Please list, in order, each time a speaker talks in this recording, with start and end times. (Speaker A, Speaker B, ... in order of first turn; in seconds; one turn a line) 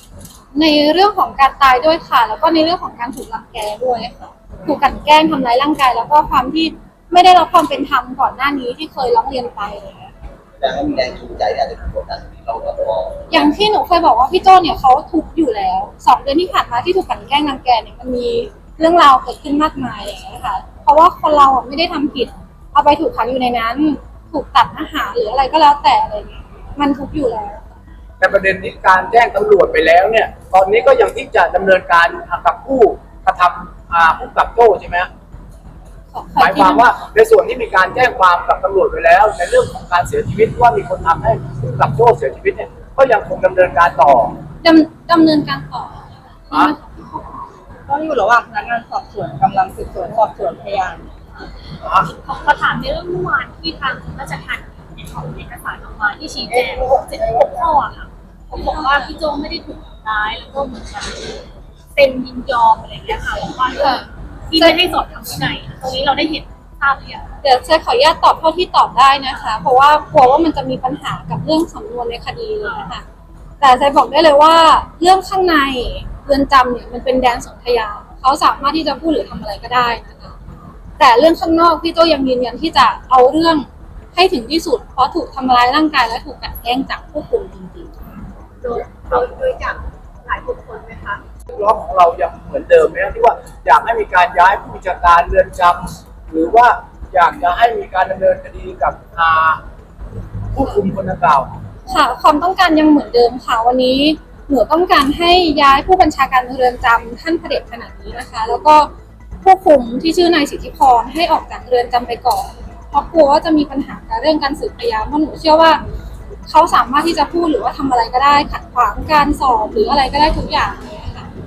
Speaker A: 0.5-10.1
Speaker B: 10.6-13.5
Speaker A: 13.3-27.7
Speaker C: 28.2-35.1
Speaker A: 36.1-36.9
Speaker C: 36.4-44.3
Speaker A: 44.6-47.4
Speaker D: 47.9-51.1
Speaker E: 52.1-61.2
Speaker D: 58.5-59.1
Speaker E: 62.0-64.0
Speaker E: 64.5-67.2
Speaker A: 67.4-73.0
Speaker A: 73.6-80.3
Speaker A: 81.0-87.9
Speaker E: 88.6-91.2
Speaker C: 91.5-99.6
Speaker C: 100.5-101.5
Speaker A: 101.9-108.9
Speaker A: 109.4-115.8
Speaker A: 116.5-121.3